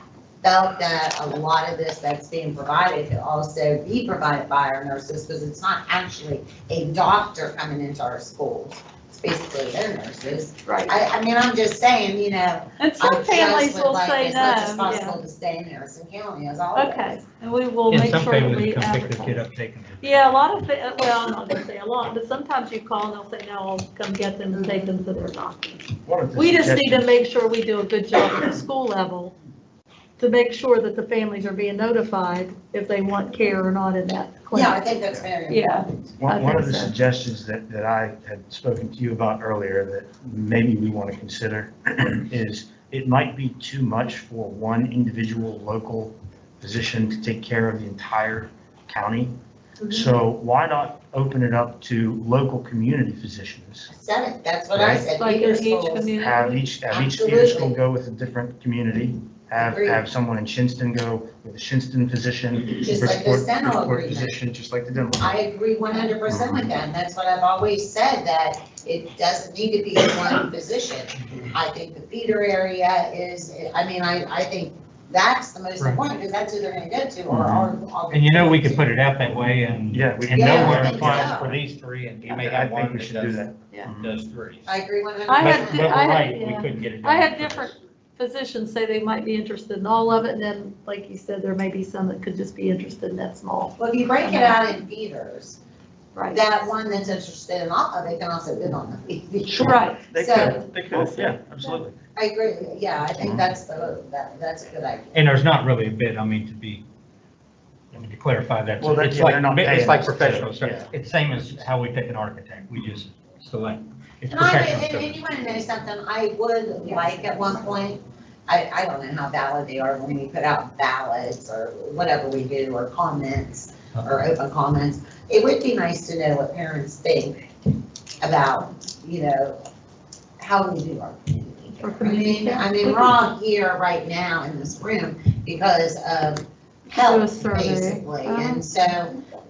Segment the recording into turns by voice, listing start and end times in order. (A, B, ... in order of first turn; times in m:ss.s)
0:00.4-0:17.1 A
0:10.7-0:10.9 B
0:12.8-0:15.2 B
0:16.8-0:19.4 B
0:17.9-0:20.4 C
0:20.0-0:29.4 B
0:24.5-0:24.9 A
0:26.1-0:27.1 D
0:30.2-0:34.8 B
0:34.5-0:36.0 A
0:35.5-0:36.9 B
0:36.2-0:49.4 D
0:49.8-0:50.1 A
0:49.9-0:53.9 D
0:53.9-0:56.1 A
0:54.7-0:55.0 D
0:55.2-0:56.7 B
0:56.2-1:05.4 D
0:56.9-0:57.7 A
0:59.6-1:00.0 A
1:02.7-1:04.4 A
1:05.2-1:18.9 A
1:06.3-1:06.7 D
1:18.1-1:24.7 C
1:19.9-1:21.5 D
1:20.3-1:21.6 A
1:22.3-1:24.1 D
1:24.7-1:25.9 A
1:25.3-1:34.6 B
1:25.4-1:27.7 C
1:33.8-1:35.6 A
1:36.2-1:36.6 B
1:36.3-1:40.6 A
1:39.5-1:42.0 D
1:39.6-1:41.8 B
1:42.2-1:45.2 A
1:45.1-1:46.8 C
1:47.9-1:55.2 C
1:48.8-1:50.9 D
1:54.3-2:07.4 A
2:08.2-2:09.6 A
2:10.4-2:19.2 A
2:11.8-2:13.2 B
2:17.0-2:18.6 B